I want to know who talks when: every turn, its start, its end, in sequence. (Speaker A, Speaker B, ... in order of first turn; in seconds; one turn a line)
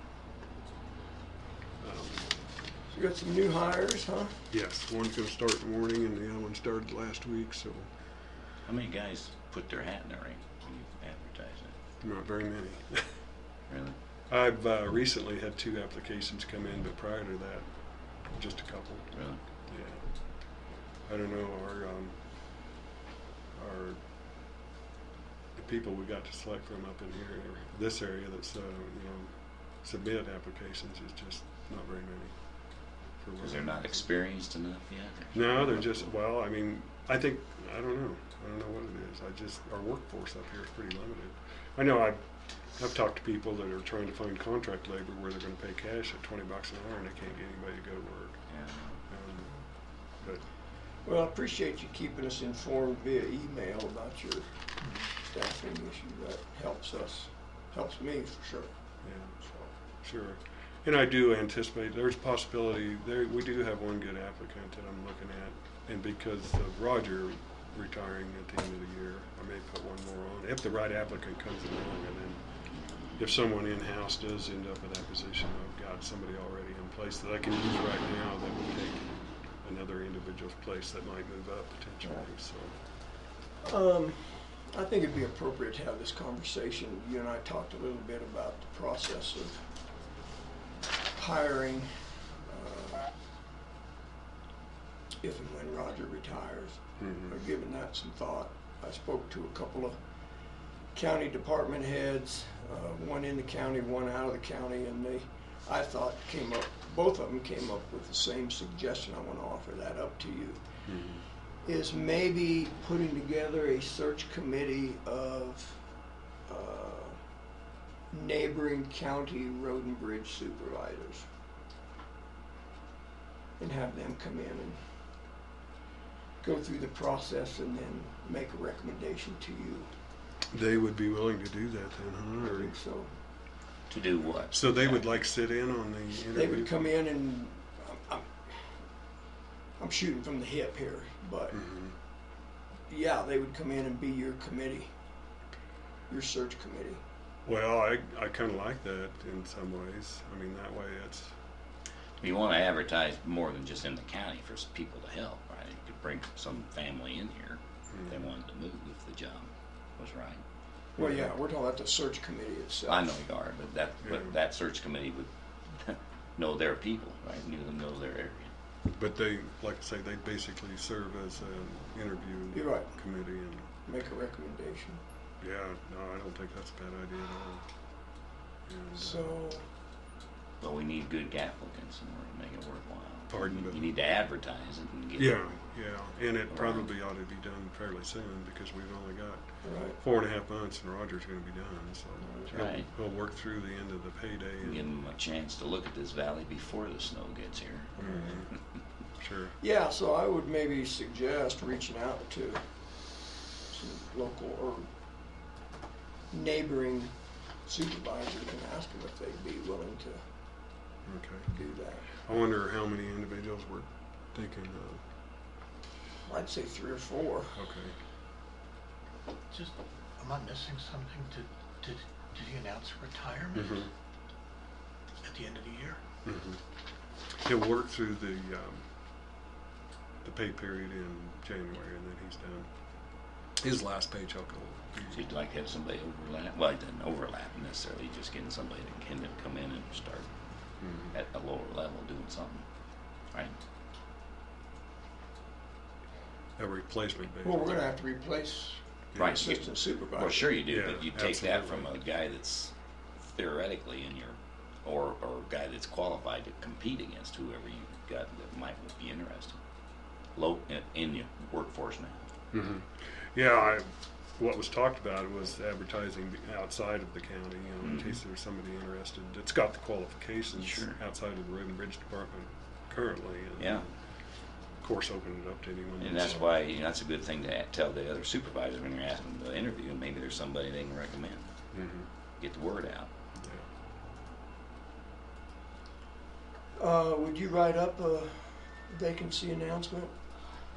Speaker A: 1.8-2.3
Speaker B: 2.9-4.4
Speaker A: 4.5-7.9
Speaker C: 8.6-11.7
Speaker A: 12.0-13.2
Speaker C: 13.7-13.9
Speaker A: 14.3-19.1
Speaker C: 19.1-19.4
Speaker A: 19.6-22.2
Speaker A: 23.5-24.0
Speaker A: 25.5-33.9
Speaker C: 33.4-36.1
Speaker A: 35.3-48.5
Speaker C: 48.5-49.0
Speaker A: 49.1-50.4
Speaker B: 51.0-54.5
Speaker B: 55.2-58.7
Speaker A: 59.0-72.4
Speaker A: 73.2-82.8
Speaker B: 83.6-89.6
Speaker B: 91.1-91.9
Speaker B: 92.5-93.0
Speaker B: 95.2-100.0
Speaker A: 97.0-97.3
Speaker B: 100.9-110.6
Speaker A: 110.9-111.2
Speaker B: 111.6-115.8
Speaker B: 116.5-117.2
Speaker B: 118.1-121.2
Speaker B: 123.6-124.8
Speaker B: 126.4-129.9
Speaker A: 130.5-132.7
Speaker B: 132.4-133.1
Speaker C: 133.9-135.0
Speaker A: 134.5-136.9
Speaker B: 136.3-138.8
Speaker B: 139.8-141.6
Speaker A: 141.5-141.9
Speaker B: 142.9-144.9
Speaker B: 146.1-147.0
Speaker A: 147.4-151.3
Speaker C: 152.2-160.4
Speaker A: 157.9-158.3
Speaker A: 161.0-161.3
Speaker B: 161.0-163.1
Speaker C: 162.9-168.5
Speaker A: 164.0-164.3
Speaker A: 168.9-173.7
Speaker B: 172.5-172.9
Speaker B: 173.8-175.0
Speaker A: 175.4-177.7
Speaker A: 178.7-179.4
Speaker B: 178.9-179.6
Speaker C: 180.6-185.4
Speaker A: 183.3-183.9
Speaker A: 185.2-194.9
Speaker C: 186.5-186.9
Speaker B: 189.6-190.0
Speaker B: 192.2-192.6
Speaker C: 192.5-192.9
Speaker C: 194.6-197.9
Speaker B: 198.0-198.4
Speaker A: 198.0-198.5
Speaker A: 199.2-199.6
Speaker B: 199.6-202.6
Speaker B: 203.7-204.9
Speaker B: 206.3-207.1
Speaker B: 207.6-210.2
Speaker A: 211.1-211.5
Speaker B: 211.5-212.1
Speaker A: 212.1-215.0
Speaker B: 216.2-217.6
Speaker A: 217.6-217.9
Speaker D: 219.5-223.8
Speaker A: 223.5-223.9
Speaker D: 225.2-226.0
Speaker A: 226.2-226.6
Speaker A: 227.4-228.9
Speaker A: 230.2-232.7
Speaker A: 233.6-235.3
Speaker C: 235.1-240.3
Speaker A: 240.8-241.1
Speaker C: 241.1-242.6
Speaker A: 246.6-247.8
Speaker B: 247.4-250.5
Speaker A: 249.1-249.4
Speaker C: 249.2-259.6
Speaker A: 250.7-252.0
Speaker C: 260.4-262.3
Speaker A: 262.5-273.9
Speaker C: 267.8-268.2
Speaker C: 270.5-271.0
Speaker C: 273.6-273.8
Speaker A: 274.8-276.4
Speaker C: 276.0-281.5
Speaker A: 281.7-282.1
Speaker C: 282.4-283.1
Speaker A: 283.4-283.6
Speaker B: 286.8-290.1